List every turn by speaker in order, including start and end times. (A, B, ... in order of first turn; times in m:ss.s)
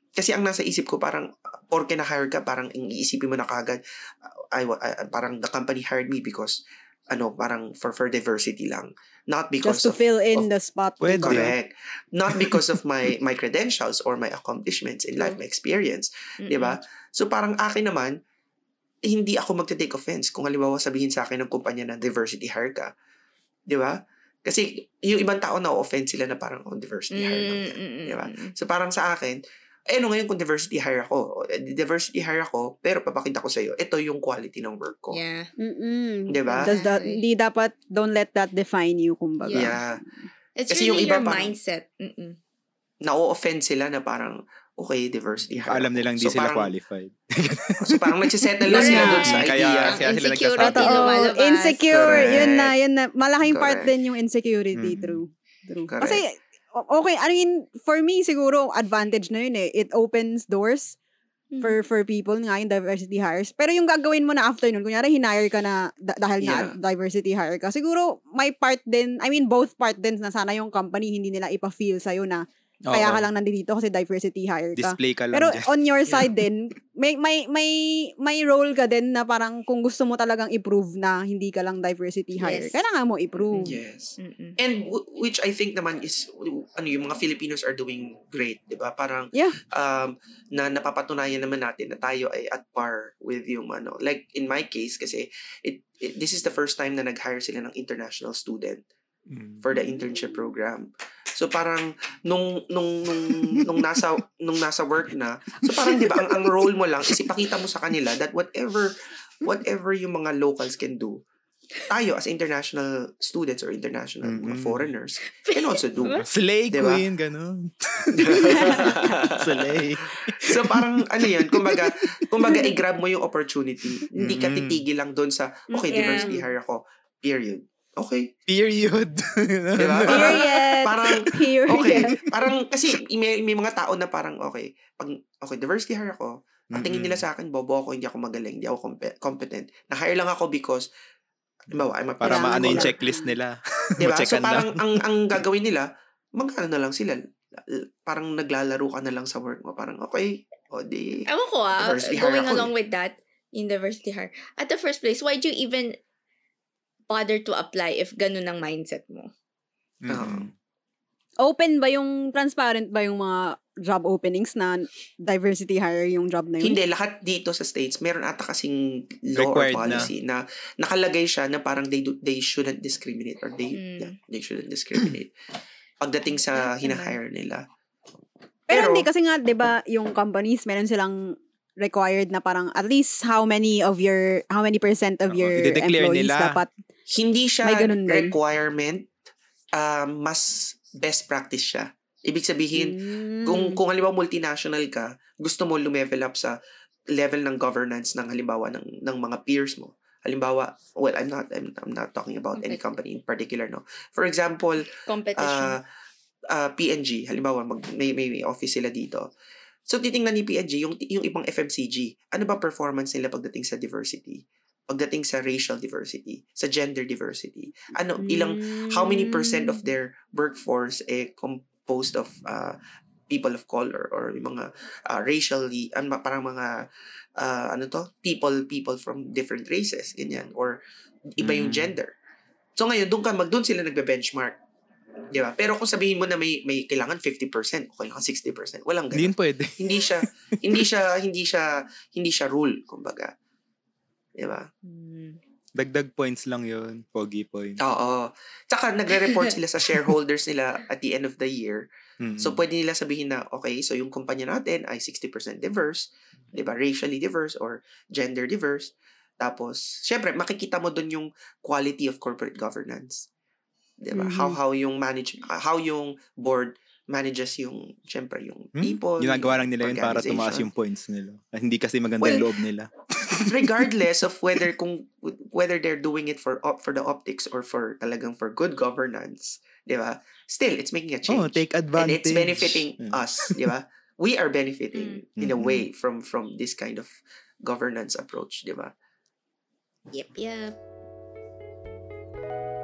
0:00.2-0:10.5 A
0:09.6-0:11.5 B
0:11.0-0:11.5 C
0:11.2-0:18.2 A
0:12.4-0:12.7 C
0:16.4-0:16.8 D
0:19.1-0:22.9 A
0:23.7-0:35.2 A
0:27.1-0:28.5 D
0:35.1-0:35.5 D
0:35.6-0:40.2 B
0:36.3-0:36.8 A
0:36.5-0:37.2 D
0:39.4-0:39.8 D
0:39.5-0:40.0 A
0:40.6-0:42.4 D
0:40.7-0:41.6 A
0:43.0-0:46.8 A
0:45.6-0:48.1 C
0:47.8-0:50.1 A
0:48.6-0:49.4 B
0:48.7-0:51.1 C
0:48.7-0:52.4 D
0:50.6-1:01.0 B
0:51.9-0:52.8 A
0:53.4-0:53.9 A
0:54.7-0:55.2 C
0:55.9-0:56.2 A
1:01.5-1:01.8 D
1:01.6-1:23.8 B
1:06.4-1:06.8 A
1:12.9-1:13.3 C
1:14.8-1:16.3 C
1:22.4-1:22.8 D
1:23.4-1:24.6 D
1:23.6-1:38.8 A
1:39.3-1:39.6 C
1:39.6-1:51.2 A
1:39.8-1:40.0 D
1:51.9-1:56.2 A
1:54.2-1:54.9 C
1:55.3-1:56.3 D
1:56.0-2:02.2 C
1:56.7-1:57.0 A
1:58.4-1:59.2 A
2:00.5-2:08.3 A
2:03.9-2:04.8 C
2:05.7-2:06.5 B
2:05.9-2:06.4 D
2:08.5-2:11.4 C
2:09.8-2:20.9 A
2:10.1-2:12.2 B
2:16.7-2:17.2 C
2:21.7-2:22.9 A
2:22.2-2:24.8 C
2:22.2-2:23.3 B
2:24.0-2:32.7 A
2:31.3-2:36.0 D
2:37.1-2:39.3 D
2:40.0-2:40.5 C
2:40.1-2:40.5 A
2:41.4-2:46.8 B
2:46.6-2:55.3 A
2:49.4-2:50.1 C
2:53.7-2:54.1 D
2:56.0-2:57.6 A
2:56.3-2:57.2 D
2:58.7-2:59.1 A
2:58.7-3:01.2 B
3:01.8-3:06.7 B
3:05.3-3:06.6 C
3:07.1-3:09.1 A
3:07.6-3:08.4 B
3:09.7-3:16.6 A
3:12.7-3:13.8 B
3:17.1-3:24.8 A
3:24.9-3:25.8 D
3:25.4-3:25.8 A
3:26.5-3:29.3 A
3:29.9-3:42.8 A
3:38.2-3:39.7 B
3:43.3-3:46.7 A
3:47.4-3:50.8 A
3:51.3-3:52.1 A
3:51.4-3:52.0 C
3:52.8-3:54.6 A
3:55.3-4:03.3 A
3:59.1-4:00.6 C
4:04.4-4:04.7 A
4:04.8-4:05.4 D
4:05.8-4:07.8 C
4:07.8-4:11.9 A
4:09.2-4:09.5 D
4:12.2-4:12.6 C
4:12.4-4:23.3 A
4:24.0-4:30.7 A
4:24.1-4:24.6 B
4:28.8-4:33.9 C
4:33.5-4:48.9 A
4:41.3-4:43.7 C
4:44.9-4:45.2 D
4:45.4-4:45.9 C
4:50.1-4:50.8 D